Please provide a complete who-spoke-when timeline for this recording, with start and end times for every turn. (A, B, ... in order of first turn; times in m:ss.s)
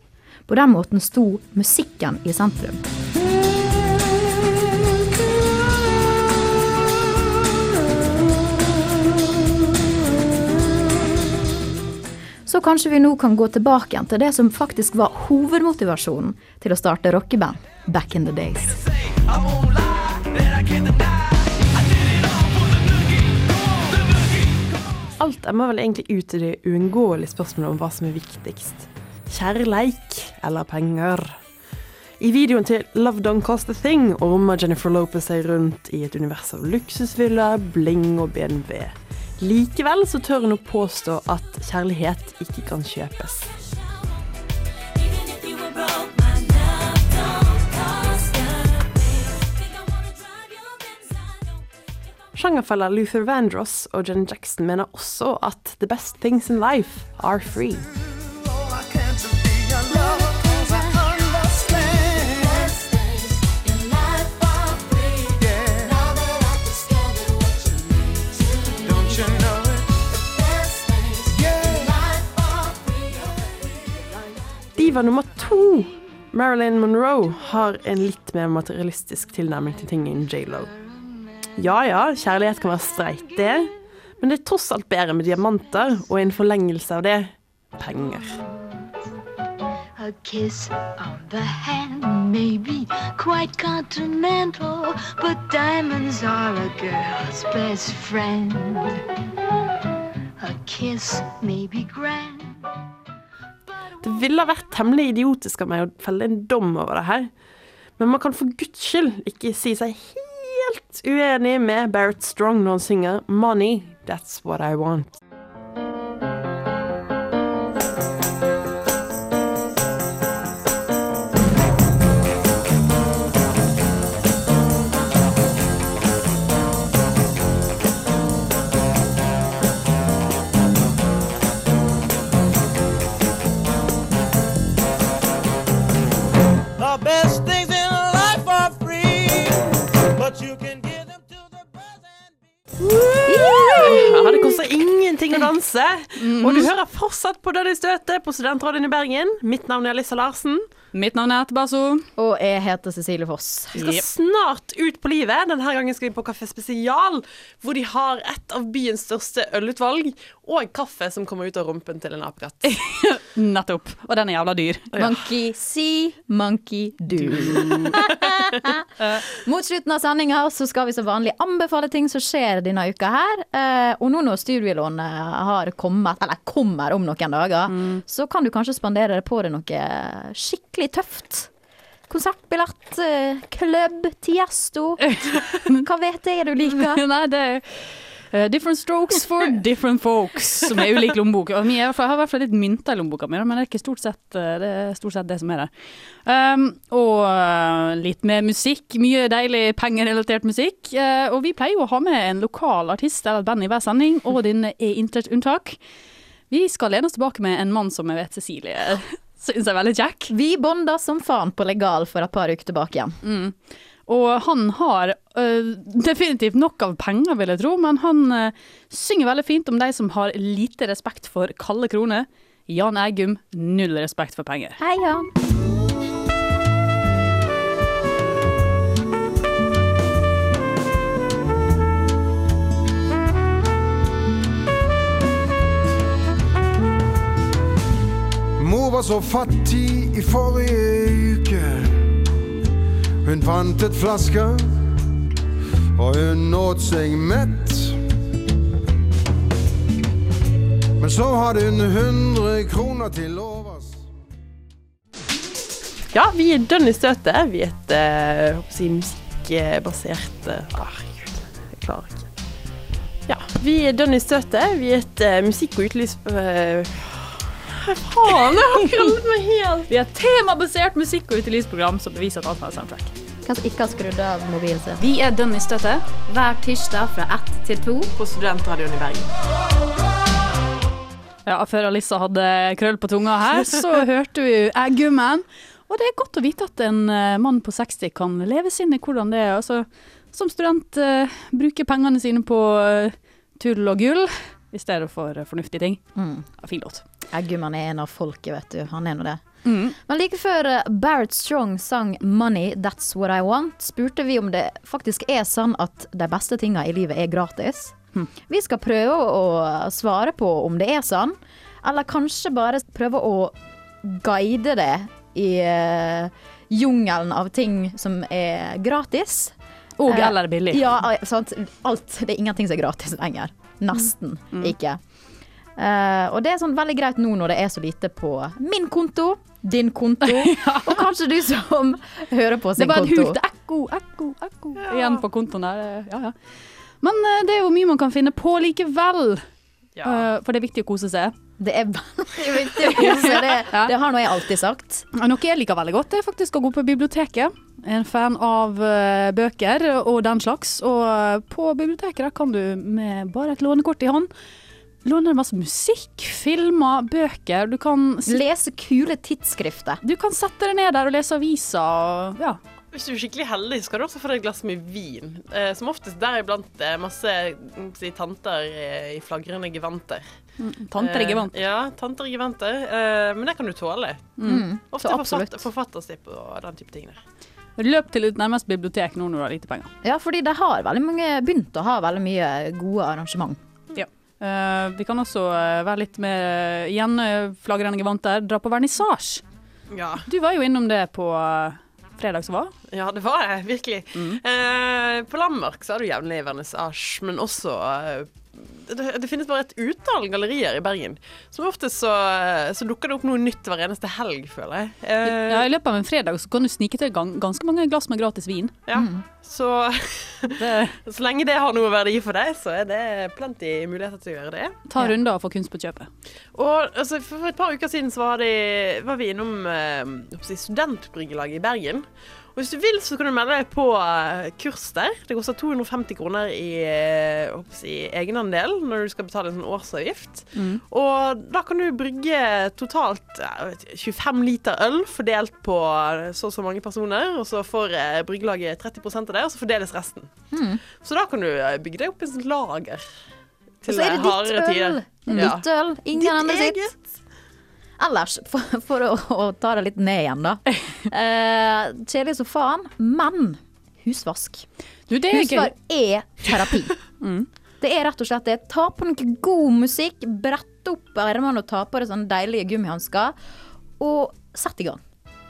0:00.5-0:02.8 A
0:12.5-0:18.8 A
0:19.3-0:21.1 B
0:21.9-0:23.4 B
0:25.2-0:31.4 C
0:32.2-0:43.5 C
0:45.1-0:49.5 D
0:52.4-0:57.9 C
0:58.5-0:59.9 B
0:59.9-1:09.4 D
1:08.9-1:09.7 B
1:10.1-1:13.6 D
1:14.8-1:20.7 C
1:21.6-1:28.4 C
1:30.0-1:39.0 D
1:40.4-1:42.6 D
1:44.0-1:47.3 C
1:48.0-1:55.2 C
2:16.8-2:21.9 B
2:23.0-2:24.0 E
2:23.3-2:24.6 A
2:23.8-2:30.6 C
2:26.2-2:26.7 E
2:30.9-2:32.1 E
2:32.2-2:34.0 A
2:33.8-2:42.7 C
2:33.8-2:34.0 E
2:42.6-2:44.9 E
2:44.9-2:45.2 C
2:45.0-3:01.5 A
2:47.5-2:47.9 E
2:57.7-2:58.0 E
3:02.1-3:07.0 A
3:05.1-3:05.8 E
3:06.7-3:15.7 E
3:16.2-3:25.8 E
3:26.5-3:30.3 E
3:30.3-3:33.2 A
3:33.2-3:44.8 E
3:44.8-3:45.3 A
3:58.6-4:02.0 F
4:03.2-4:04.7 F
4:06.0-4:08.0 F
4:11.0-4:14.0 F
4:16.1-4:22.3 C
4:23.3-4:29.9 C
4:29.9-4:33.1 E
4:33.4-4:35.0 A
4:35.0-4:36.0 E
4:36.3-4:38.1 A
4:38.2-4:39.3 C
4:41.5-4:56.0 E
4:56.2-4:56.5 A
4:56.6-4:57.0 E
4:57.3-5:08.0 A
4:59.6-5:00.0 E
5:08.5-5:19.6 A
5:20.0-5:20.8 E
5:20.1-5:25.0 A
5:25.8-5:33.4 A
5:30.4-5:31.0 E
5:32.8-5:36.4 E
5:34.9-5:35.2 C
5:37.0-5:39.4 E
5:40.0-5:40.2 C
5:40.0-5:41.3 E
5:41.6-5:45.1 A
5:42.8-5:43.9 E
5:45.1-5:54.3 E
5:55.0-5:58.4 E
5:58.3-6:00.0 A
6:00.0-6:02.6 E
6:02.9-6:10.2 C
6:10.6-6:11.5 E
6:11.0-6:17.2 C
6:14.4-6:14.6 E
6:14.4-6:15.6 A
6:17.8-6:19.9 E
6:20.0-6:23.6 A
6:24.0-6:29.4 E
6:29.9-6:30.2 C
6:30.2-6:32.7 E
6:32.9-6:45.7 C
6:34.2-6:34.4 E
6:45.2-6:48.8 E
6:48.9-6:54.8 C
6:49.0-6:49.2 A
6:50.5-6:51.0 E
6:54.9-6:56.1 E
6:56.6-7:20.3 C
7:10.6-7:10.8 E
7:20.5-7:20.8 A
7:21.0-7:23.1 C
7:23.8-7:27.0 C
7:23.8-7:26.9 A
7:28.0-7:34.7 A
7:35.1-7:35.7 E
7:35.3-7:37.0 A
7:37.2-7:37.5 E
7:37.8-7:43.4 A
7:44.0-7:45.0 A